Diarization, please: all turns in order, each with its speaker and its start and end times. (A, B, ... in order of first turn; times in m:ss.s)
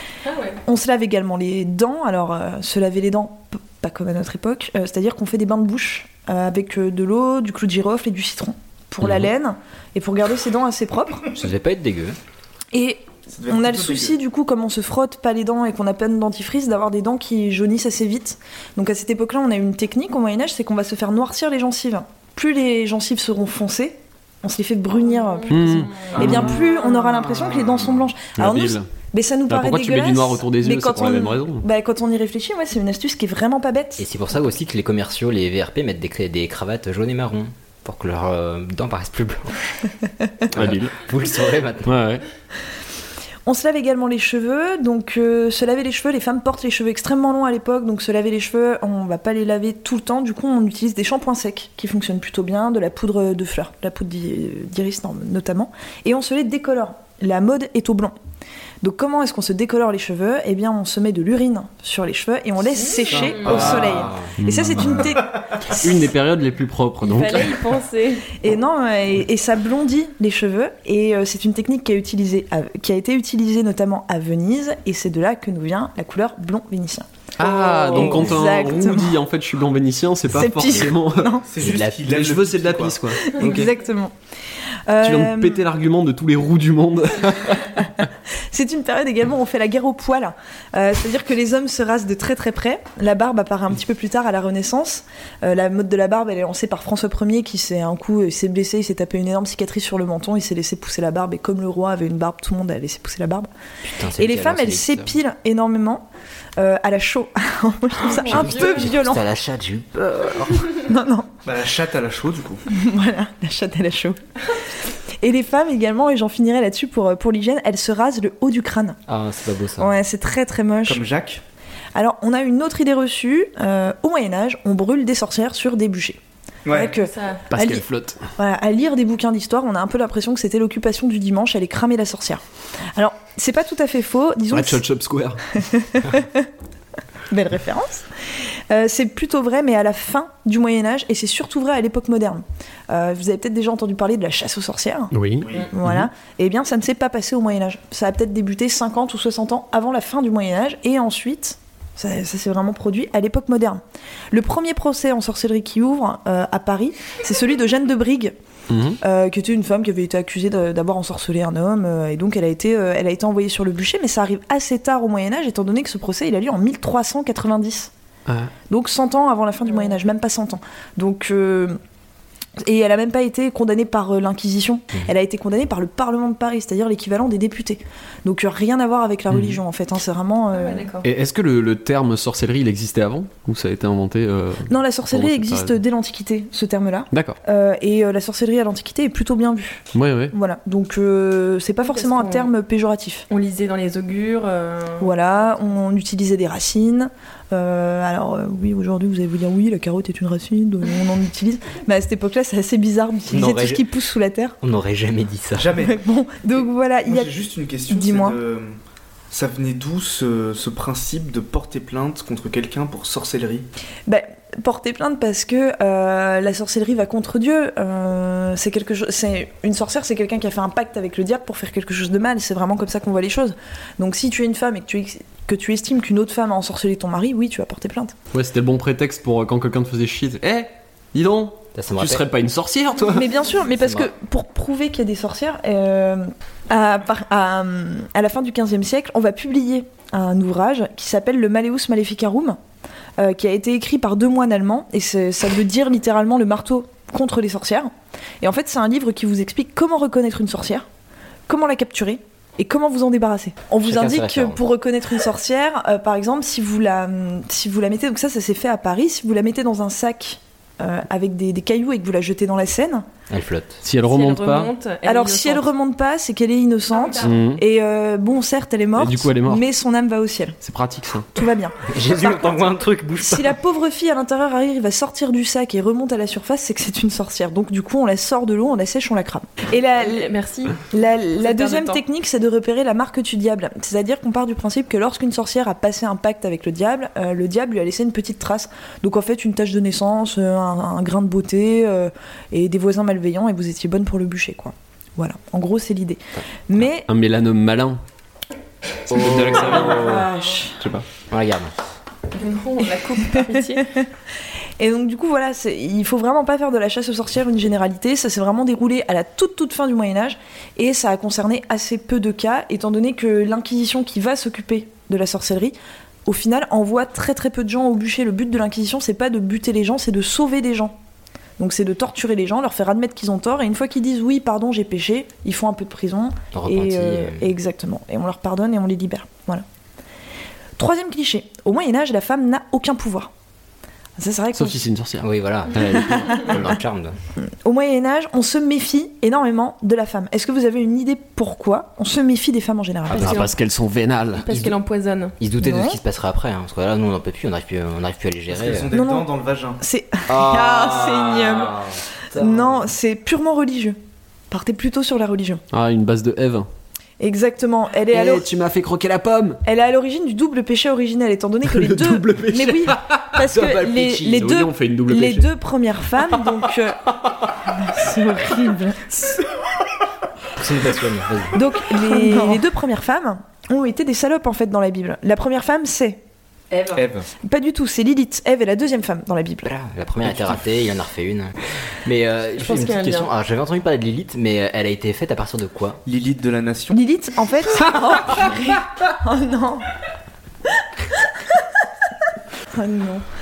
0:00.2-0:00.6 A
0:00.6-0:11.3 B
0:11.3-0:12.2 C
0:12.7-0:34.0 B
0:13.3-0:14.2 D
0:25.2-0:26.7 A
0:25.5-0:26.6 E
0:26.2-0:26.5 D
0:27.1-0:28.1 D
0:28.4-0:28.9 E
0:29.5-0:31.6 E
0:34.0-0:39.7 C
0:40.5-0:42.0 C
0:40.5-0:41.0 E
0:41.8-0:42.2 E
0:43.5-0:58.2 B
0:58.8-1:05.9 B
1:02.8-1:03.8 A
1:03.4-1:04.3 C
1:04.4-1:05.2 E
1:05.7-1:07.6 E
1:07.0-1:08.3 A
1:08.4-1:17.1 B
1:17.4-1:21.4 E
1:17.4-1:18.3 C
1:17.9-1:19.2 B
1:20.3-1:21.4 B
1:21.4-1:23.1 D
1:21.6-1:22.0 C
1:22.0-1:23.7 E
1:23.2-1:24.1 B
1:24.9-1:25.6 B
1:25.0-1:27.9 E
1:28.4-1:43.5 B
1:43.9-1:45.1 C
1:44.2-1:49.2 B
1:48.2-1:48.7 A
1:48.3-1:50.7 C
1:50.7-1:51.3 B
1:51.4-1:52.7 D
1:52.7-1:54.2 B
1:54.9-1:59.0 B
1:59.1-1:59.9 C
1:59.8-2:01.0 B
2:00.9-2:01.4 D
2:02.0-2:07.8 B
2:06.7-2:07.0 D
2:07.0-2:07.4 A
2:07.5-2:08.2 E
2:08.4-2:12.4 B
2:13.0-2:14.8 B
2:14.5-2:15.5 E
2:15.6-2:16.5 B
2:17.3-2:25.1 B
2:25.1-2:26.1 E
2:25.7-2:38.4 B
2:38.7-2:39.0 E
2:39.0-2:47.9 B
2:48.7-2:51.8 B
2:52.6-3:00.9 B
3:00.5-3:01.1 A
3:01.0-3:05.7 E
3:04.7-3:13.3 B
3:09.9-3:10.3 E
3:11.8-3:12.5 A
3:13.3-3:15.1 A
3:15.0-3:24.6 B
3:23.3-3:23.8 C
3:24.6-3:25.7 C
3:25.6-3:26.0 D
3:25.8-3:27.4 B
3:27.1-3:28.8 D
3:27.9-3:28.4 B
3:29.3-3:33.7 D
3:34.1-3:48.2 B
3:48.3-3:53.2 E
3:51.8-3:52.3 C
3:53.1-4:02.6 B
3:53.8-3:54.1 C
4:03.2-4:10.9 B
4:11.5-4:23.1 B
4:13.8-4:14.6 C
4:23.3-4:23.8 C
4:23.8-4:24.7 E
4:24.0-4:25.7 A
4:25.0-4:30.6 B
4:27.2-4:27.6 E
4:29.0-4:29.6 E
4:30.6-4:31.3 E
4:31.3-4:40.3 B
4:31.9-4:33.5 C
4:40.0-4:40.9 A
4:40.9-4:57.1 B
4:41.4-4:42.0 A
4:57.1-4:58.0 E
4:59.1-5:00.3 E
4:59.2-4:59.8 C
4:59.8-5:00.8 B
5:01.3-5:01.7 C
5:02.3-5:03.9 A
5:03.3-5:03.8 B
5:04.8-5:15.8 B
5:16.3-5:21.0 B
5:21.6-5:29.6 B
5:26.5-5:27.5 C
5:30.8-5:33.3 B
5:34.2-5:34.9 B
5:34.6-5:36.8 E
5:35.2-5:37.2 C
5:36.1-5:36.4 B
5:37.4-5:43.5 B
5:43.1-5:44.7 E
5:44.4-5:45.4 A
5:45.4-5:48.9 C
5:45.6-5:46.0 B
5:48.5-5:49.8 D
5:48.9-5:51.8 B
5:50.3-5:52.8 C
5:52.3-5:54.0 B
5:54.5-5:55.6 B
5:55.7-5:56.7 E
5:57.2-5:58.5 B
5:58.1-5:59.6 E
5:59.6-6:07.0 B
6:01.7-6:05.5 E
6:07.6-6:09.1 B
6:10.6-6:11.6 C
6:11.5-6:16.2 B
6:16.7-6:17.0 A
6:16.9-6:17.3 D
6:17.4-6:19.7 B
6:19.6-6:21.5 C
6:22.0-6:26.0 C
6:22.6-6:23.3 A
6:26.1-6:27.0 D
6:26.9-6:29.9 B
6:30.7-6:31.9 B
6:32.7-6:33.3 B